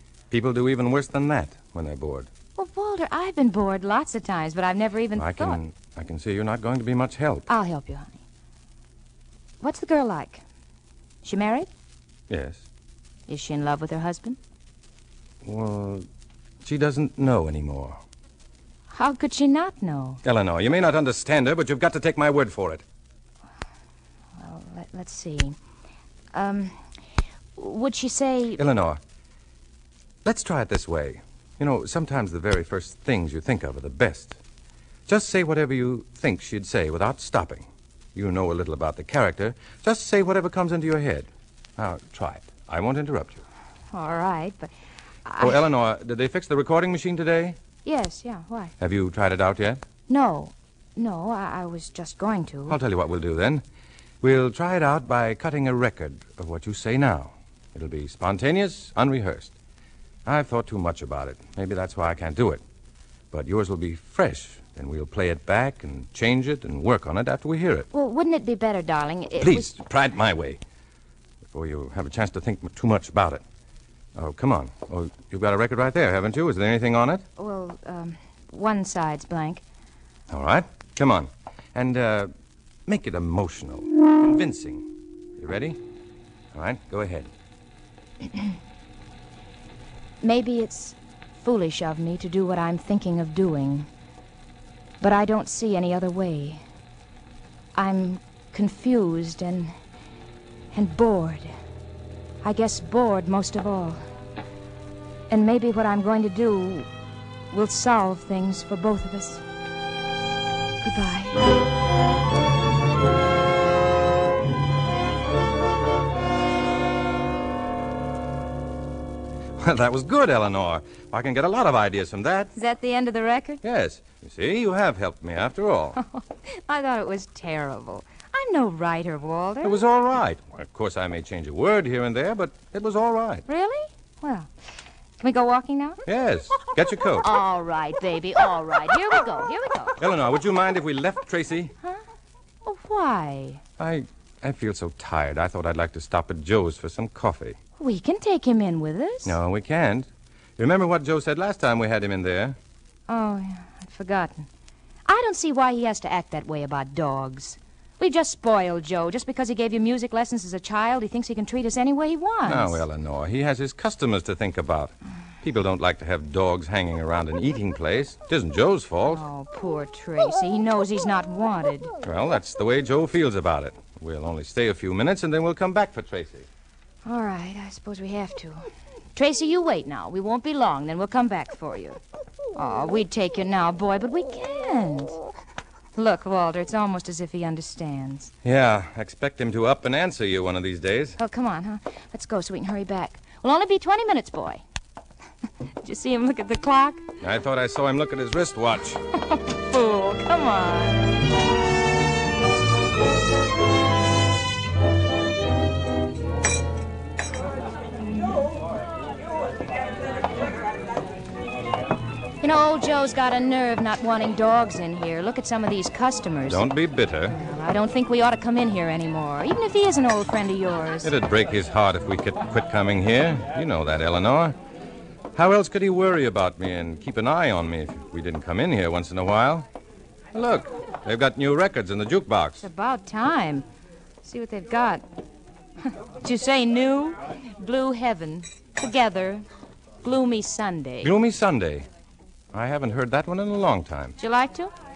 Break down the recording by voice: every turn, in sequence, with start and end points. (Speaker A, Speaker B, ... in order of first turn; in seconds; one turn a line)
Speaker A: 0.3-2.3
Speaker B: 2.6-5.6
Speaker A: 5.1-7.5
Speaker B: 7.5-8.2
Speaker B: 9.6-10.4
Speaker B: 11.2-11.7
Speaker A: 12.3-12.7
Speaker B: 13.3-14.4
Speaker A: 15.4-16.1
Speaker A: 16.6-18.0
Speaker B: 18.9-20.2
Speaker A: 20.2-22.8
Speaker B: 24.4-25.6
Speaker B: 26.3-26.8
Speaker B: 27.6-28.6
Speaker A: 28.6-29.0
Speaker A: 30.2-34.4
Speaker A: 35.1-43.4
Speaker B: 43.9-44.7
Speaker B: 45.2-45.6
Speaker A: 45.4-47.6
Speaker B: 47.8-48.7
Speaker A: 48.8-49.8
Speaker B: 50.1-52.8
Speaker A: 52.7-53.6
Speaker A: 54.2-59.5
Speaker A: 60.2-62.6
Speaker A: 63.3-67.9
Speaker B: 67.9-69.7
Speaker A: 69.4-70.6
Speaker A: 71.5-73.4
Speaker A: 74.2-77.2
Speaker B: 77.4-79.6
Speaker A: 80.3-82.3
Speaker A: 82.9-85.8
Speaker A: 86.5-87.3
Speaker B: 90.2-93.9
Speaker B: 95.0-96.6
Speaker B: 97.8-99.7
Speaker B: 100.7-101.5
Speaker B: 102.4-104.0
Speaker B: 105.3-106.9
Speaker B: 107.5-109.4
Speaker B: 110.8-111.4
Speaker A: 119.6-122.5
Speaker B: 122.5-123.6
Speaker A: 123.6-126.0
Speaker B: 126.0-129.8
Speaker A: 129.6-133.4
Speaker B: 133.5-134.5
Speaker B: 135.2-136.0
Speaker A: 136.1-137.3
Speaker B: 137.2-140.0
Speaker A: 140.0-141.7
Speaker B: 142.7-143.6
Speaker A: 143.8-147.6
Speaker B: 147.8-149.4
Speaker A: 149.2-152.6
Speaker B: 153.1-154.5
Speaker B: 155.1-162.8
Speaker A: 162.4-169.2
Speaker B: 169.1-171.9
Speaker A: 172.0-176.5
Speaker B: 177.1-178.6
Speaker B: 179.2-182.0
Speaker B: 182.6-185.2
Speaker B: 186.0-188.3
Speaker A: 188.4-191.2
Speaker B: 191.2-194.6
Speaker B: 195.8-197.0
Speaker A: 197.2-199.0
Speaker B: 199.2-201.0
Speaker B: 212.4-216.7
Speaker A: 216.5-217.4
Speaker B: 217.3-221.1
Speaker A: 221.0-224.6
Speaker A: 225.3-229.7
Speaker A: 230.3-232.6
Speaker B: 232.6-233.7
Speaker B: 234.2-235.0
Speaker B: 235.9-239.5
Speaker B: 240.0-241.1
Speaker A: 241.0-241.9
Speaker A: 242.5-244.2
Speaker B: 244.2-244.7